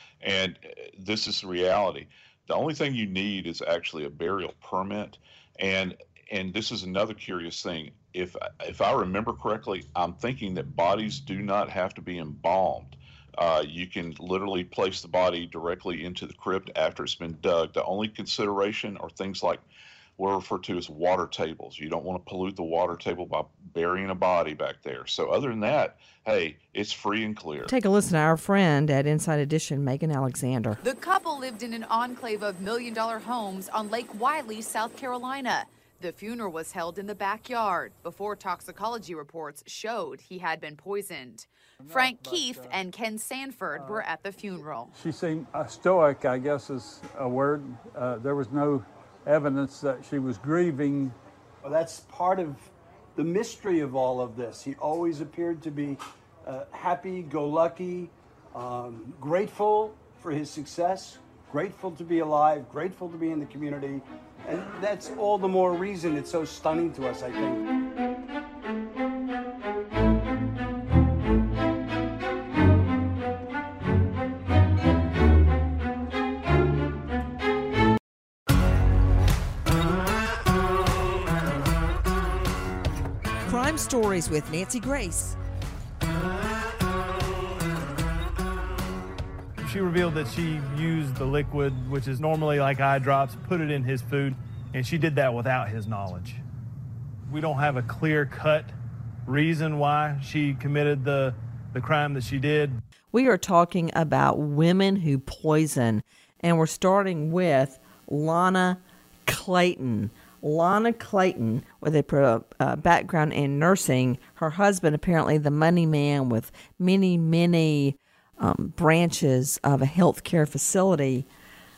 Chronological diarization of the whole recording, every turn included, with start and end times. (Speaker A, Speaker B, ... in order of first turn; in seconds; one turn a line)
Speaker A: 0.2-19.6
Speaker A: 20.2-27.7
Speaker B: 27.6-30.8
Speaker C: 30.8-44.9
Speaker D: 41.8-42.7
Speaker D: 43.7-44.0
Speaker D: 44.9-51.1
Speaker E: 51.6-67.6
Speaker B: 83.5-85.4
Speaker F: 89.6-96.4
Speaker F: 97.3-98.7
Speaker F: 99.2-102.8
Speaker B: 103.1-121.2